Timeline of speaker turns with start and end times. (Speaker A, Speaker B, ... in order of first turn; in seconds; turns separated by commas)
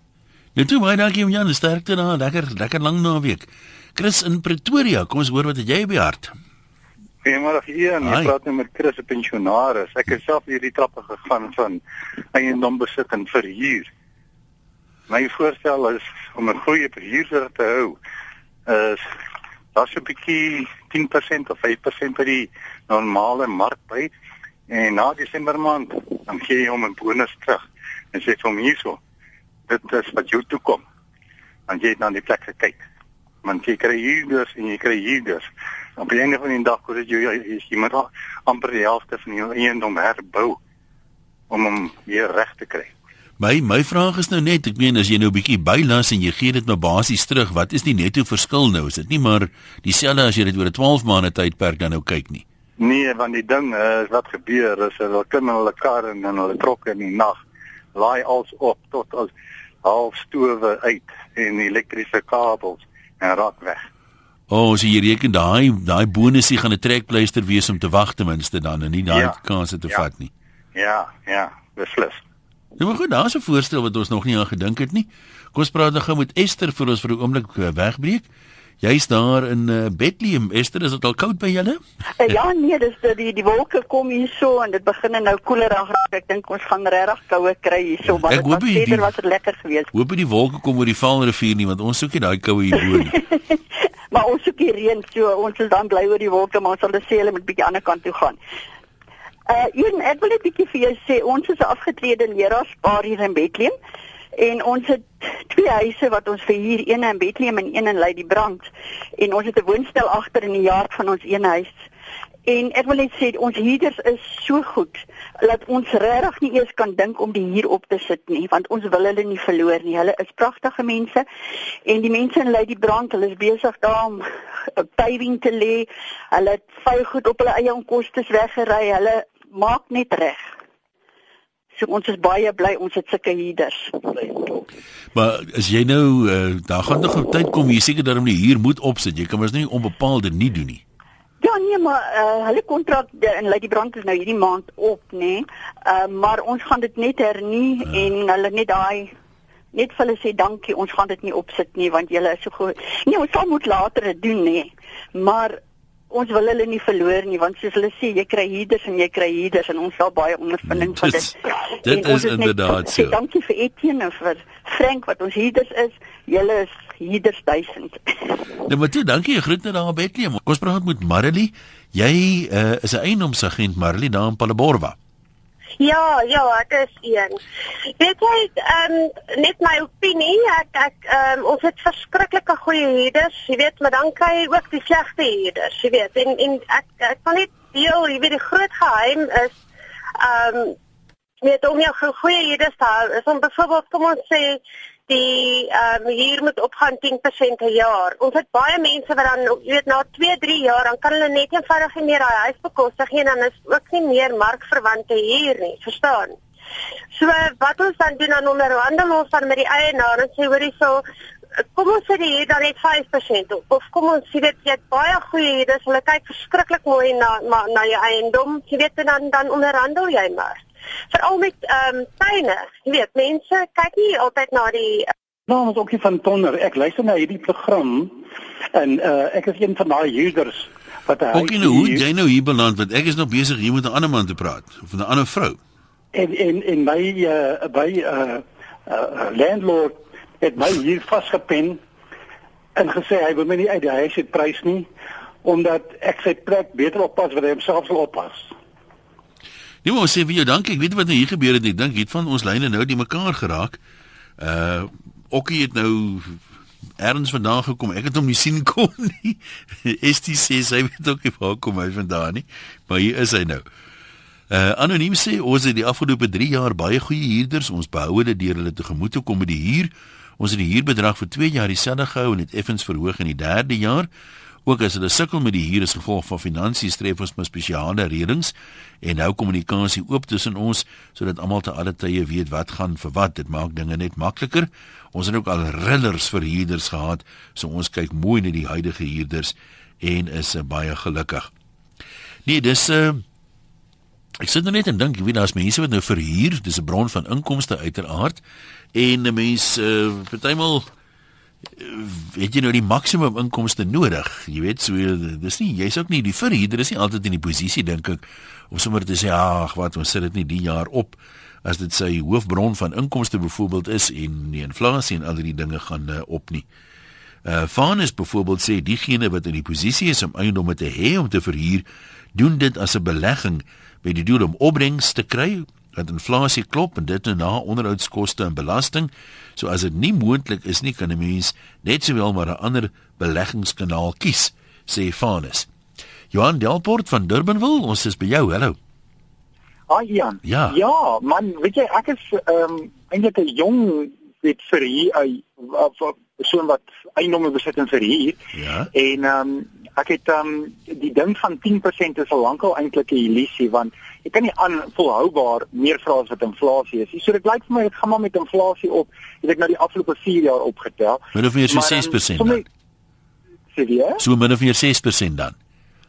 Speaker A: 0.6-6.3, Speaker B: 7.2-11.8, Speaker A: 8.0-8.3, Speaker B: 12.3-13.9, Speaker B: 15.1-18.0, Speaker B: 18.7-19.0, Speaker B: 19.7-24.1, Speaker B: 24.7-29.0, Speaker B: 29.7-30.8, Speaker B: 31.7-32.8, Speaker B: 33.4-40.6, Speaker B: 41.5-42.9, Speaker A: 43.4-52.4, Speaker B: 52.8-57.4, Speaker B: 57.9-59.3, Speaker B: 59.8-63.9, Speaker A: 64.5-70.3, Speaker B: 69.1-69.4, Speaker B: 70.7-72.2, Speaker A: 72.8-78.3, Speaker A: 78.8-82.4, Speaker C: 82.2-89.9, Speaker A: 88.0-89.1, Speaker A: 89.9-93.2, Speaker C: 93.0-93.6, Speaker C: 94.1-98.4, Speaker C: 99.5-103.8, Speaker C: 104.4-111.8, Speaker C: 112.5-121.2, Speaker C: 121.8-130.5, Speaker C: 131.7-134.6, Speaker A: 135.1-140.8, Speaker C: 141.4-149.1, Speaker C: 149.7-168.4, Speaker A: 160.7-163.2, Speaker A: 168.7-174.9, Speaker D: 175.8-177.4, Speaker D: 177.9-189.5, Speaker D: 190.2-190.8, Speaker D: 191.4-206.4, Speaker D: 207.1-211.0, Speaker D: 211.7-225.1, Speaker E: 225.5-232.0, Speaker A: 231.3-235.6, Speaker E: 236.1-241.8, Speaker E: 242.8-244.9, Speaker E: 245.4-248.5, Speaker A: 249.8-253.8, Speaker A: 254.4-256.4, Speaker A: 257.0-263.6, Speaker A: 264.5-274.1, Speaker A: 274.6-291.5, Speaker A: 292.4-293.2, Speaker A: 294.4-298.4, Speaker A: 298.9-300.9, Speaker A: 301.8-316.6, Speaker A: 317.4-335.7, Speaker A: 336.3-338.8, Speaker F: 339.9-348.4, Speaker A: 340.4-340.8, Speaker A: 348.5-348.9, Speaker F: 348.9-362.6, Speaker A: 361.3-362.6, Speaker F: 363.7-364.2, Speaker A: 364.2-365.6